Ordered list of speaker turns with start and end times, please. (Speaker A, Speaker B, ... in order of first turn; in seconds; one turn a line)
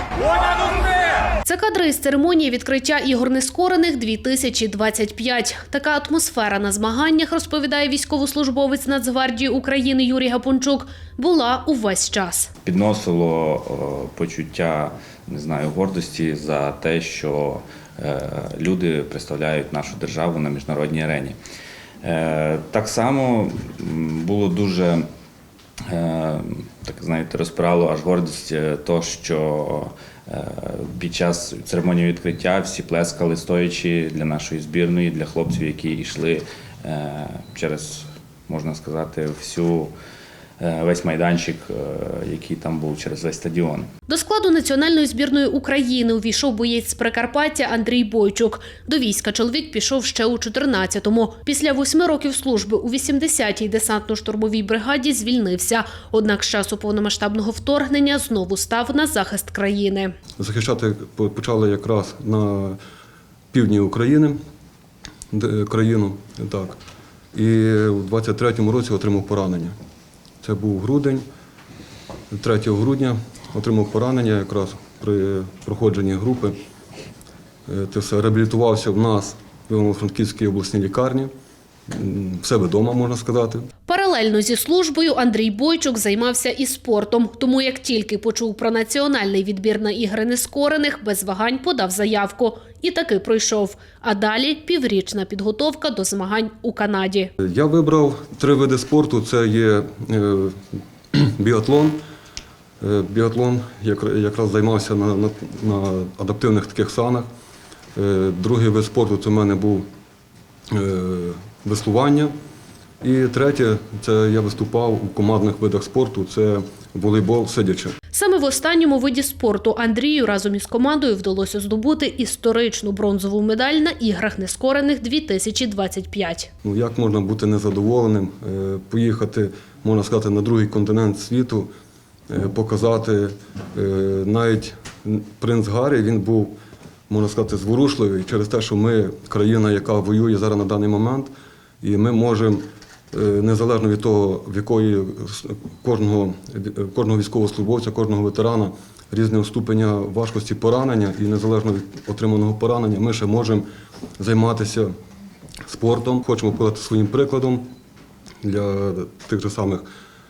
Speaker A: 1.5-12.5
Speaker B: 12.7-21.4
Speaker B: 22.0-25.1
Speaker B: 25.9-39.9
Speaker B: 40.6-43.9
Speaker A: 44.1-60.1
Speaker C: 60.4-62.8
Speaker C: 63.5-64.4
Speaker C: 65.3-66.8
Speaker C: 67.3-69.7
Speaker C: 70.4-71.2
Speaker C: 72.3-76.6
Speaker C: 77.7-81.3
Speaker C: 81.9-83.7
Speaker A: 83.9-97.3
Speaker C: 97.4-100.6
Speaker C: 101.1-102.0
Speaker C: 102.8-107.3
Speaker C: 108.0-109.8
Speaker C: 110.7-112.3
Speaker C: 113.0-118.0
Speaker A: 118.1-126.5
Speaker C: 126.6-131.7
Speaker C: 132.3-136.6
Speaker C: 137.1-141.3
Speaker C: 141.8-153.7
Speaker C: 154.2-154.9
Speaker C: 155.7-157.7
Speaker C: 158.4-159.8